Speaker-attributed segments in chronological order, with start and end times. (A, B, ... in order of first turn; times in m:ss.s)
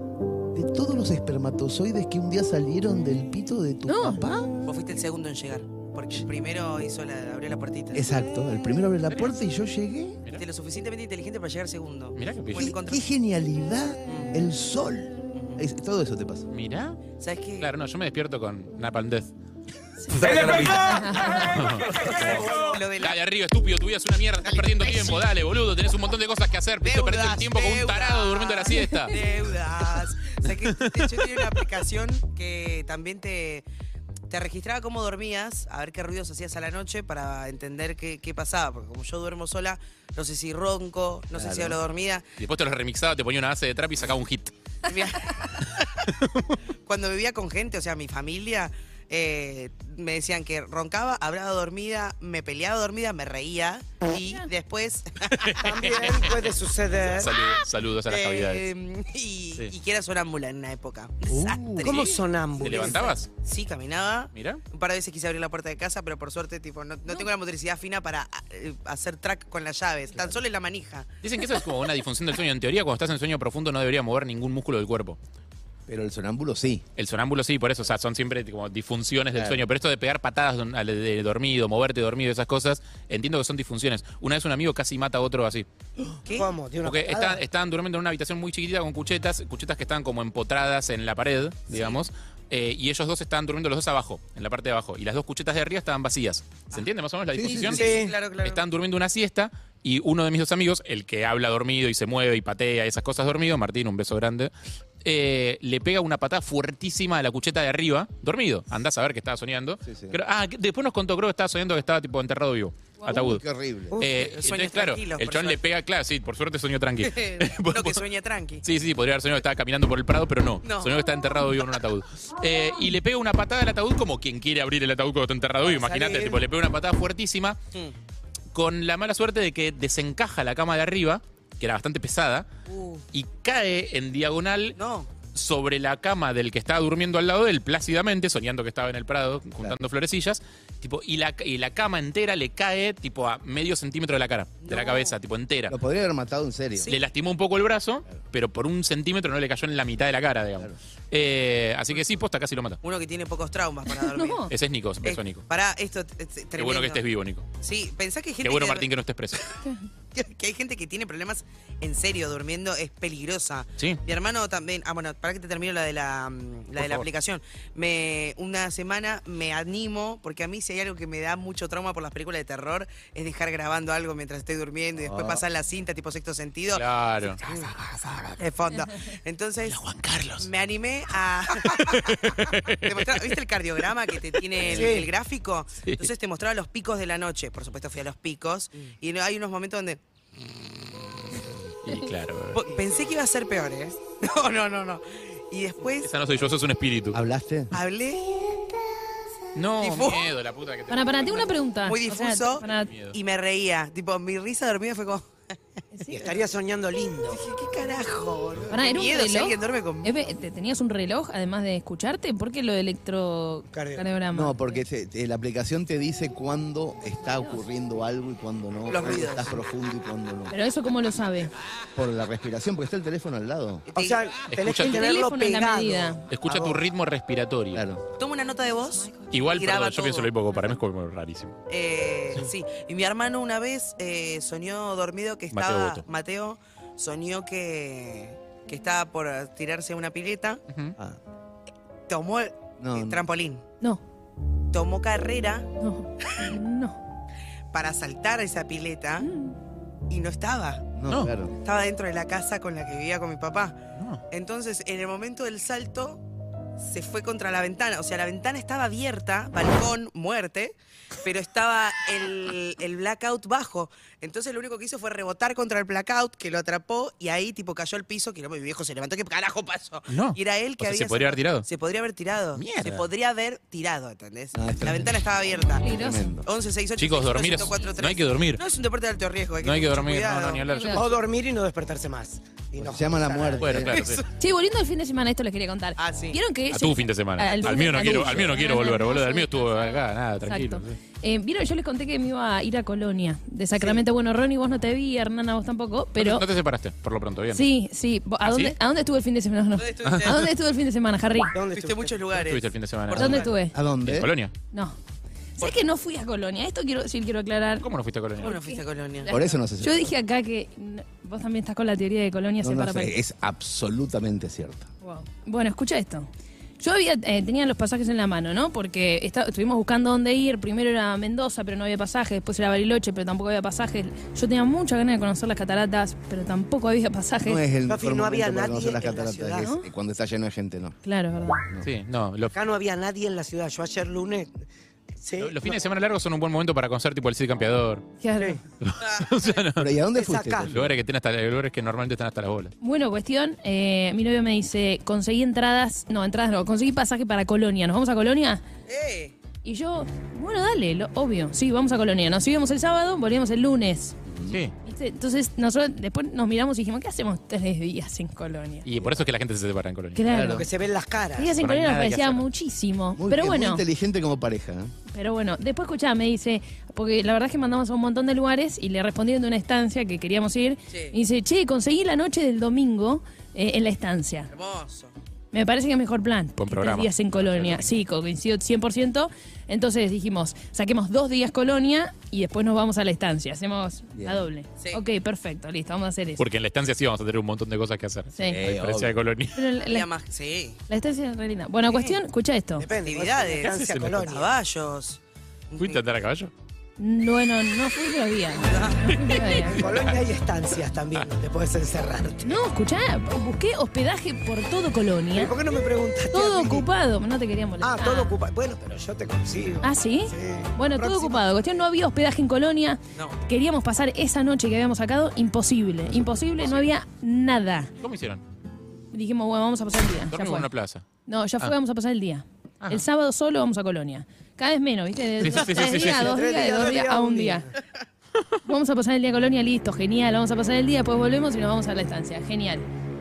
0:00.5-0:04.6 A
0:03.9-0:04.3 B
0:04.7-0:08.0 C
0:07.9-0:10.2 A
0:09.1-0:09.3 D
0:10.3-0:13.0 C
0:12.2-0:12.8 D
0:12.6-0:16.5 A
0:14.1-0:14.4 C
0:15.3-0:15.6 C
0:16.5-0:17.0 D
0:17.2-0:17.7 C
0:17.6-0:19.3 D
0:20.1-0:20.8 D
0:20.2-0:22.8 E
0:20.8-0:21.6 B
0:21.5-0:29.1 D
0:22.0-0:23.2 C
0:24.8-0:25.3 C
0:26.8-0:33.7 C
0:28.7-0:29.3 B
0:30.4-0:31.5 D
0:34.3-0:42.2 C
0:41.3-0:41.8 A
0:42.4-0:44.5 D
0:44.9-0:45.9 C
0:46.0-0:46.6 D
0:46.9-0:55.6 C
0:55.3-0:58.7 D
0:55.6-0:57.3 E
0:58.1-1:02.2 C
1:01.3-1:02.1 A
1:01.8-1:03.2 E
1:02.6-1:03.3 D
1:02.7-1:11.1 C
1:04.3-1:04.6 D
1:10.2-1:10.4 A
1:11.2-1:15.2 D
1:15.9-1:16.8 A
1:17.0-1:25.7 D
1:19.4-1:19.6 A
1:26.3-1:26.5 C
1:26.3-1:27.4 E
1:26.8-1:44.5 D
1:37.4-1:37.7 A
1:37.4-1:38.1 E
1:37.5-1:38.6 C
1:45.0-1:53.4 D
1:49.8-1:50.2 A
1:53.0-1:54.0 A
1:54.0-1:58.0 D
1:54.1-1:55.6 C
1:57.0-1:58.6 C
1:58.6-2:07.6 D
2:00.6-2:01.0 C
2:05.7-2:06.4 E
2:05.8-2:06.2 C
2:08.5-2:12.5 D
2:12.7-2:13.0 C
2:13.1-2:14.8 D
2:14.8-2:15.1 C
2:15.3-2:25.8 D
2:24.6-2:25.2 C
2:25.7-2:27.0 A
2:26.8-2:27.0 C
2:26.9-2:32.8 D
2:32.8-2:34.5 C
2:34.0-2:34.5 B
2:34.5-2:35.4 D
2:35.0-2:37.0 C
2:36.6-2:37.5 D
2:37.6-2:38.9 C
2:38.4-2:39.5 D
2:40.2-2:56.8 C
2:46.8-2:47.1 D
2:55.0-2:55.4 A
2:56.7-2:57.4 D
2:57.4-2:59.8 C
2:59.6-3:00.5 D
3:00.4-3:10.0 C
3:01.6-3:03.4 D
3:04.6-3:04.9 D
3:04.6-3:05.1 E
3:05.8-3:06.1 D
3:11.8-3:12.7 D
3:12.5-3:16.1 C
3:15.9-3:17.2 D
3:17.1-3:17.7 A
3:17.7-3:18.4 C
3:19.6-3:21.6 D
3:19.8-3:20.3 C
3:20.9-3:22.9 B
3:21.7-3:25.3 C
3:22.6-3:23.2 D
3:25.9-3:26.4 B
3:26.1-3:27.5 E
3:27.3-3:30.3 C
3:28.7-3:34.8 B
3:33.7-3:34.1 E
3:34.3-3:40.6 A
3:37.0-3:37.6 B
3:38.9-3:39.6 C
3:40.5-3:41.5 B
3:42.0-3:43.8 A
3:43.9-3:44.2 C
3:43.9-3:46.8 E
3:44.5-3:45.1 D
3:44.8-3:46.2 B
3:46.3-3:47.8 D
3:47.7-3:48.0 A
3:48.2-3:50.3 C
3:48.8-3:49.3 B
3:49.3-3:51.6 D
3:51.7-4:00.6 C
3:55.5-3:56.0 D
4:00.7-4:01.0 D
4:02.1-4:03.6 C
4:02.8-4:03.2 A
4:04.7-4:05.7 C
4:05.8-4:07.0 B
4:07.7-4:09.3 C
4:09.2-4:09.6 B
4:10.1-4:10.9 C
4:11.0-4:11.5 A
4:11.6-4:16.2 C
4:14.0-4:14.2 D
4:16.8-4:35.9 C
4:30.1-4:31.7 D
4:32.6-4:33.1 D
4:34.6-4:35.3 A
4:35.8-4:36.3 B
4:35.9-4:36.5 A
4:36.4-4:40.6 C
4:37.0-4:38.6 D
4:39.6-4:41.1 D
4:40.7-4:41.1 B
4:40.9-4:44.0 E
4:42.8-4:44.0 A
4:43.6-4:44.2 D
4:43.9-4:44.2 C
4:44.4-4:56.5 B
4:46.0-4:46.4 C
4:46.7-4:51.0 D
4:53.8-4:54.0 E
4:56.2-4:57.6 D
4:57.5-5:01.6 B
4:58.4-4:58.7 D
4:59.8-5:00.4 C
5:00.0-5:00.4 D
5:01.5-5:02.3 E
5:01.7-5:03.5 C
5:02.3-5:03.5 D
5:03.2-5:03.8 B
5:03.7-5:04.3 A
5:04.0-5:04.5 D
5:04.7-5:05.0 B
5:05.6-5:07.9 B
5:05.6-5:05.9 C
5:07.8-5:08.6 D
5:08.4-5:09.4 C
5:08.4-5:13.2 B
5:09.3-5:10.1 A
5:12.6-5:14.9 A
5:15.0-5:16.3 B
5:16.8-5:27.6 B
5:27.4-5:31.0 A
5:27.9-5:29.7 E
5:29.6-5:29.9 B
5:31.0-5:31.6 B
5:31.6-5:31.9 A
5:31.8-5:32.5 D
5:32.5-5:34.6 E
5:35.2-5:35.8 E
5:35.4-5:38.1 D
5:38.2-5:38.6 B
5:38.8-5:39.9 D
5:39.0-5:39.3 C
5:39.8-5:41.0 A
5:40.1-5:40.7 E
5:40.7-5:42.7 D
5:42.8-5:48.6 B
5:48.9-5:49.3 C
5:49.6-5:54.2 B
5:54.3-5:54.6 A
5:54.8-5:58.9 B
5:58.8-6:00.2 D
6:00.2-6:00.7 B
6:00.3-6:00.7 A
6:00.3-6:01.5 E
6:01.4-6:03.8 B
6:01.6-6:02.4 D
6:03.2-6:04.9 A
6:05.1-6:14.5 B
6:10.9-6:11.2 C
6:14.5-6:15.1 C
6:15.5-6:26.4 B
6:16.6-6:17.9 D
6:24.1-6:24.5 A
6:26.4-6:29.6 D
6:28.4-6:28.6 B
6:28.4-6:29.2 A
6:29.6-6:30.1 B
6:29.8-6:30.8 C
6:30.9-6:32.9 B
6:31.9-6:32.2 C
6:32.8-6:34.5 E
6:33.0-6:35.2 C
6:33.6-6:34.3 D
6:35.7-6:36.0 C
6:35.8-6:36.5 D
6:37.0-6:39.8 B
6:38.6-6:39.1 C
6:39.1-6:40.2 D
6:39.6-6:42.5 E
6:42.4-6:45.6 B
6:45.4-6:46.9 E
6:46.3-6:48.4 B
6:47.8-6:51.4 E
6:49.8-6:57.9 B
6:53.2-6:53.4 C
6:58.0-6:58.4 D
6:59.1-7:00.7 B
7:00.3-7:01.0 D
7:01.3-7:07.7 B
7:05.4-7:06.4 D
7:05.8-7:07.7 E
7:08.6-7:12.9 B